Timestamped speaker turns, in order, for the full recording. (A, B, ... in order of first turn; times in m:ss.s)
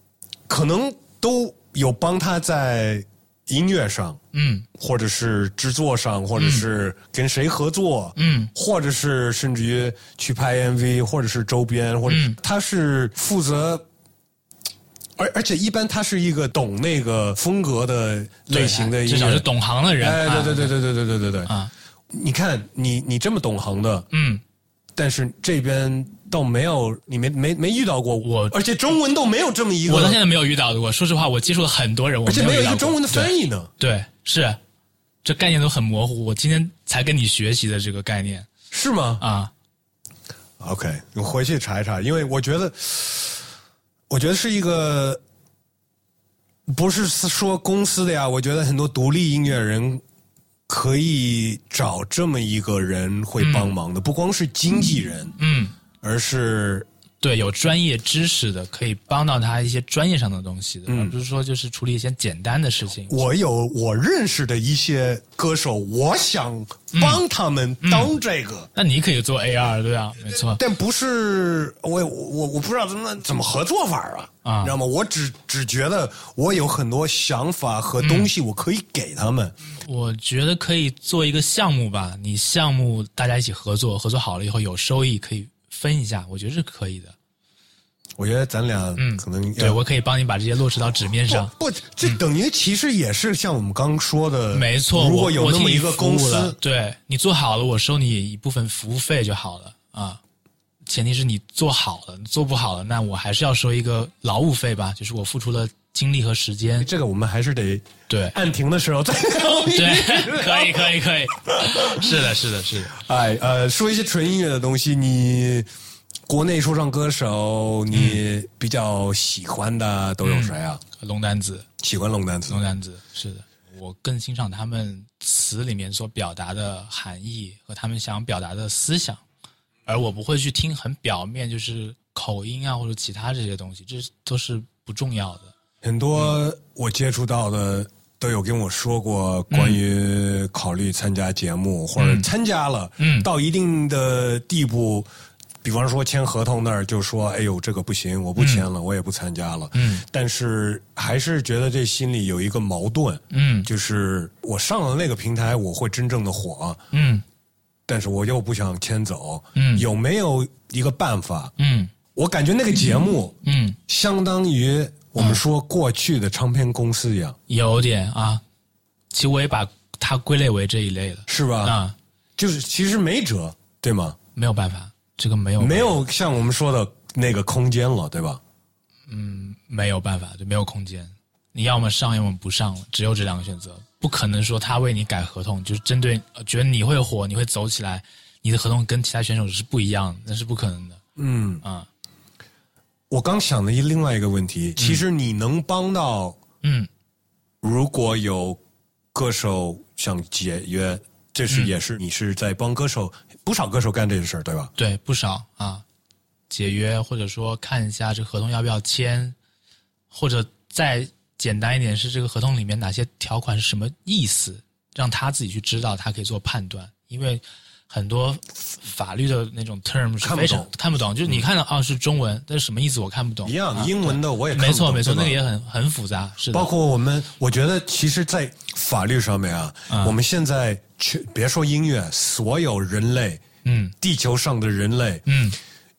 0:00.5-0:04.2 A
0:04.3-0:04.7 B
0:04.8-0:13.9 A
0:06.4-0:06.7 B
0:08.2-0:08.5 B
0:12.1-0:12.4 B
0:15.2-0:19.5 A
0:18.5-0:20.8 B
0:20.0-0:21.5 A
0:22.1-0:24.1 A
0:24.1-0:24.4 B
0:25.0-0:30.2 A
0:28.2-0:28.6 B
0:29.8-0:34.6 B
0:32.3-0:33.7 A
0:35.2-0:38.5 B
0:38.7-0:39.2 A
0:39.2-0:39.5 B
0:40.6-0:43.5 A
0:44.1-0:45.2 A
0:46.7-0:50.0 A
0:50.7-0:55.4 A
0:53.4-0:53.7 B
0:55.4-0:55.8 B
0:56.0-0:56.9 A
0:57.2-1:03.2 B
1:00.9-1:01.2 A
1:03.1-1:08.7 A
1:06.9-1:07.2 B
1:07.8-1:08.1 B
1:08.8-1:10.6 B
1:10.3-1:19.6 A
1:14.4-1:14.8 B
1:18.0-1:18.3 B
1:19.8-1:27.2 B
1:28.2-1:29.8 A
1:29.0-1:32.2 B
1:31.3-1:36.6 A
1:34.5-1:40.2 B
1:40.9-1:46.9 B
1:46.8-1:50.9 A
1:48.1-1:48.4 B
1:49.7-1:53.0 B
1:51.6-1:52.1 A
1:52.9-1:55.7 A
1:56.3-2:00.8 A
1:57.9-1:58.2 B
2:00.2-2:01.7 B
2:01.8-2:02.6 A
2:02.5-2:09.2 B
2:09.9-2:15.5 B
2:15.8-2:25.1 A
2:19.5-2:19.8 B
2:22.0-2:22.3 B
2:23.0-2:23.3 B
2:25.6-2:36.8 A
2:28.4-2:28.7 B
2:29.7-2:30.0 B
2:33.3-2:33.7 B
2:36.9-2:37.2 B
2:37.9-2:41.5 A
2:39.6-2:39.9 B
2:41.6-2:41.9 B
2:42.2-2:43.4 A
2:43.4-2:43.8 B
2:43.9-2:47.4 A
2:47.5-2:48.4 B
2:49.1-2:52.0 B
2:51.3-2:51.8 A
2:52.4-2:54.2 A
2:54.4-2:56.0 B
2:55.6-2:58.4 A
2:59.1-3:11.0 B
3:11.2-3:11.6 A
3:11.6-3:11.9 B
3:13.1-3:16.4 A
3:14.8-3:15.0 B
3:16.6-3:16.9 B
3:17.6-3:18.6 A
3:19.1-3:24.7 A
3:24.8-3:25.8 B
3:26.5-3:29.4 B
3:30.1-3:46.7 B
3:40.2-3:40.7 A
3:43.4-3:45.4 A
3:46.5-3:53.4 A
3:49.9-3:50.2 B
3:53.6-3:54.0 B
3:54.0-3:55.2 A
3:55.3-3:55.6 B